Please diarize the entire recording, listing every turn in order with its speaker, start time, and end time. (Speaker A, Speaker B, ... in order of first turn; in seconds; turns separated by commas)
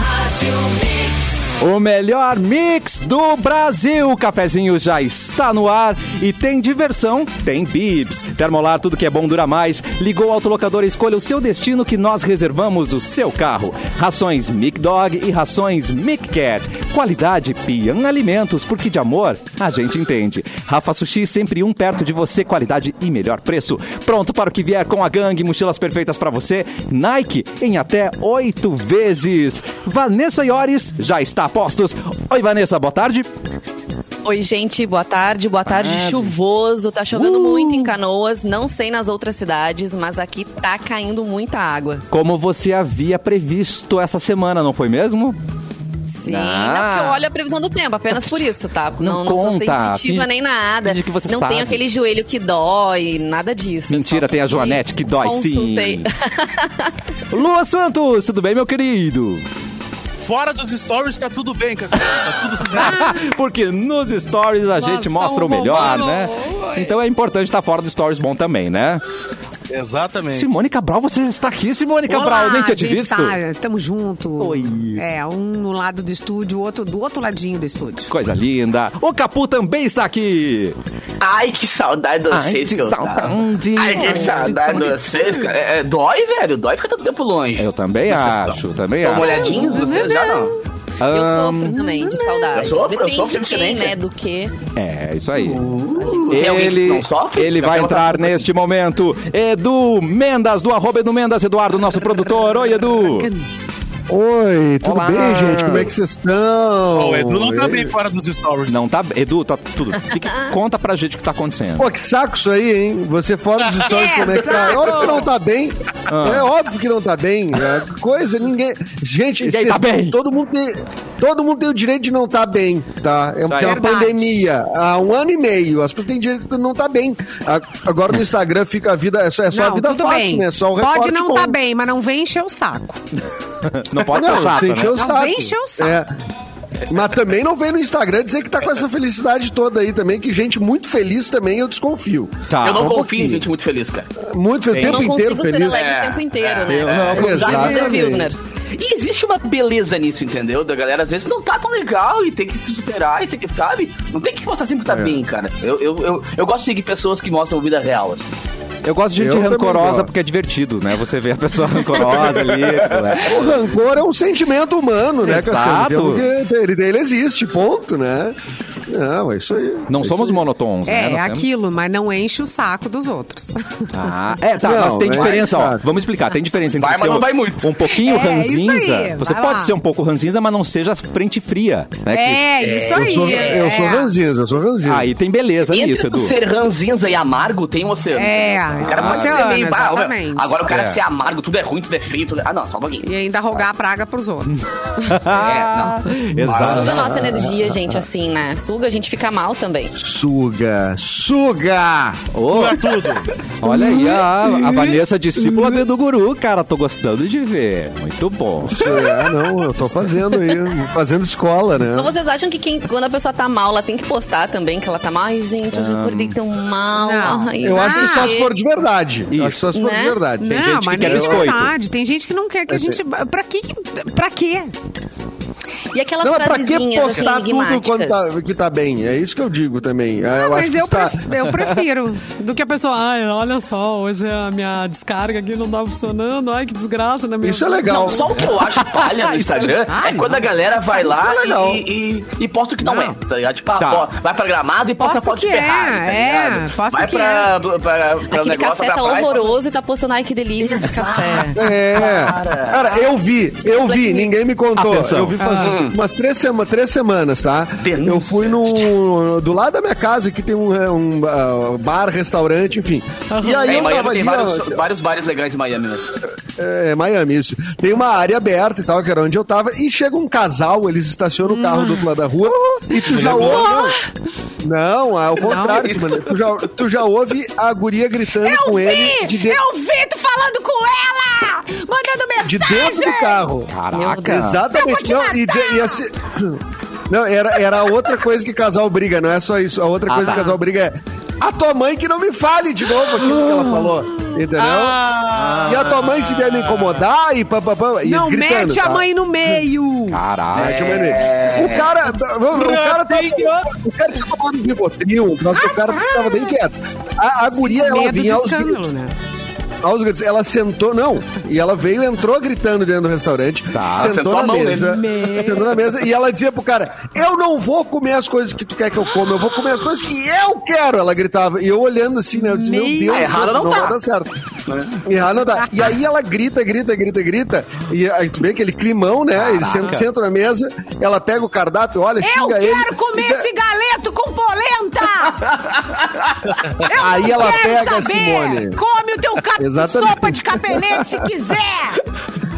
Speaker A: 1.4-33.3, Speaker B: 34.2-42.0, Speaker A: 35.7-36.3, Speaker A: 37.1-38.0, Speaker A: 42.1-45.4, Speaker B: 46.1-57.0, Speaker A: 46.2-47.2, Speaker A: 48.1-48.5, Speaker A: 49.0-50.3, Speaker A: 50.8-51.8, Speaker A: 53.9-56.1, Speaker A: 57.3-59.4, Speaker C: 60.2-63.0, Speaker A: 62.0-69.0, Speaker D: 62.8-63.2, Speaker D: 64.8-66.6, Speaker C: 65.7-66.8, Speaker C: 69.7-70.6, Speaker A: 70.3-73.4, Speaker D: 72.1-78.1, Speaker A: 74.4-75.0, Speaker A: 78.1-80.8, Speaker E: 81.2-90.5, Speaker A: 82.3-84.9, Speaker D: 84.0-85.4, Speaker A: 87.6-89.8, Speaker D: 89.1-90.6, Speaker B: 89.1-89.9, Speaker A: 91.0-92.2, Speaker B: 91.1-94.6, Speaker D: 91.7-92.5, Speaker E: 92.5-94.0, Speaker A: 94.8-95.7, Speaker E: 95.3-98.5, Speaker B: 96.0-96.6, Speaker A: 96.3-103.3, Speaker F: 104.1-107.9, Speaker A: 104.8-105.9, Speaker C: 106.9-108.8, Speaker A: 108.7-111.9, Speaker F: 111.8-131.6, Speaker C: 113.6-114.5, Speaker D: 113.8-115.3, Speaker A: 116.1-116.5, Speaker A: 119.4-120.2, Speaker A: 123.5-123.8, Speaker D: 123.6-124.5, Speaker D: 129.5-133.0, Speaker A: 133.6-135.1, Speaker F: 134.0-136.1, Speaker D: 134.9-136.0, Speaker F: 136.9-143.5, Speaker A: 142.5-142.9, Speaker E: 142.6-144.1, Speaker F: 144.2-145.9, Speaker A: 144.7-145.1, Speaker B: 144.8-148.4, Speaker E: 145.7-147.7, Speaker A: 146.7-147.9, Speaker F: 147.1-148.3, Speaker E: 148.8-158.3, Speaker F: 154.9-155.1, Speaker A: 158.8-163.4, Speaker F: 159.2-160.1, Speaker E: 162.0-163.3, Speaker F: 163.3-168.4, Speaker A: 165.2-166.3, Speaker F: 168.9-170.4, Speaker A: 169.9-171.4, Speaker D: 170.9-173.9, Speaker A: 173.9-182.7, Speaker F: 174.6-175.9, Speaker E: 175.1-175.6, Speaker E: 176.8-177.7, Speaker D: 177.9-179.7, Speaker D: 182.1-184.1, Speaker E: 182.7-183.6, Speaker F: 182.9-185.1, Speaker A: 184.8-186.3, Speaker E: 185.7-193.1, Speaker D: 188.1-190.6, Speaker A: 188.8-189.5, Speaker A: 190.7-191.0, Speaker D: 193.0-195.2, Speaker A: 194.5-197.1, Speaker E: 195.3-196.9, Speaker F: 196.6-198.0, Speaker B: 196.6-199.9, Speaker F: 200.0-202.3, Speaker A: 202.3-209.0, Speaker C: 202.4-203.3, Speaker F: 208.6-212.1, Speaker B: 211.9-218.5, Speaker A: 215.7-216.4, Speaker D: 217.0-218.3, Speaker F: 217.6-221.6, Speaker A: 219.3-219.7, Speaker B: 219.7-220.2, Speaker D: 220.4-224.7, Speaker A: 220.5-221.7, Speaker F: 222.7-223.0, Speaker B: 225.9-228.3, Speaker F: 226.2-231.3, Speaker D: 230.3-238.5, Speaker F: 237.4-238.2, Speaker E: 237.9-249.6, Speaker A: 238.7-239.7, Speaker D: 239.6-240.5, Speaker F: 240.8-241.8, Speaker D: 242.8-243.2, Speaker A: 243.8-244.1, Speaker D: 245.0-247.5, Speaker B: 248.3-251.6, Speaker E: 250.6-253.1, Speaker F: 251.6-264.8, Speaker B: 253.8-254.3, Speaker A: 254.8-255.3, Speaker D: 255.4-255.8, Speaker E: 255.6-256.0, Speaker E: 257.8-258.9, Speaker D: 263.3-263.9, Speaker E: 263.6-266.1, Speaker F: 266.6-274.0, Speaker D: 271.5-272.0, Speaker D: 272.7-274.0, Speaker F: 274.6-279.6, Speaker D: 275.4-275.9, Speaker E: 275.6-276.5, Speaker D: 278.4-283.4, Speaker F: 282.4-283.7, Speaker A: 283.7-284.6, Speaker B: 283.9-284.5, Speaker F: 284.2-295.1, Speaker D: 284.7-286.0, Speaker A: 290.1-290.5, Speaker C: 294.6-297.0, Speaker A: 295.3-296.1, Speaker F: 295.6-299.1, Speaker D: 298.1-300.2, Speaker A: 300.1-300.9, Speaker F: 300.5-308.8, Speaker E: 300.6-301.9, Speaker C: 302.5-303.7, Speaker D: 305.6-306.5, Speaker D: 307.5-309.1, Speaker F: 309.8-324.3, Speaker A: 313.7-314.1, Speaker E: 313.9-315.1, Speaker D: 314.9-315.8, Speaker D: 322.3-323.4, Speaker E: 323.1-324.0, Speaker E: 324.7-325.1, Speaker F: 325.0-333.5, Speaker A: 329.4-330.1, Speaker D: 332.2-335.5, Speaker E: 335.5-336.4, Speaker D: 336.7-342.0, Speaker F: 336.8-338.8, Speaker F: 339.6-341.3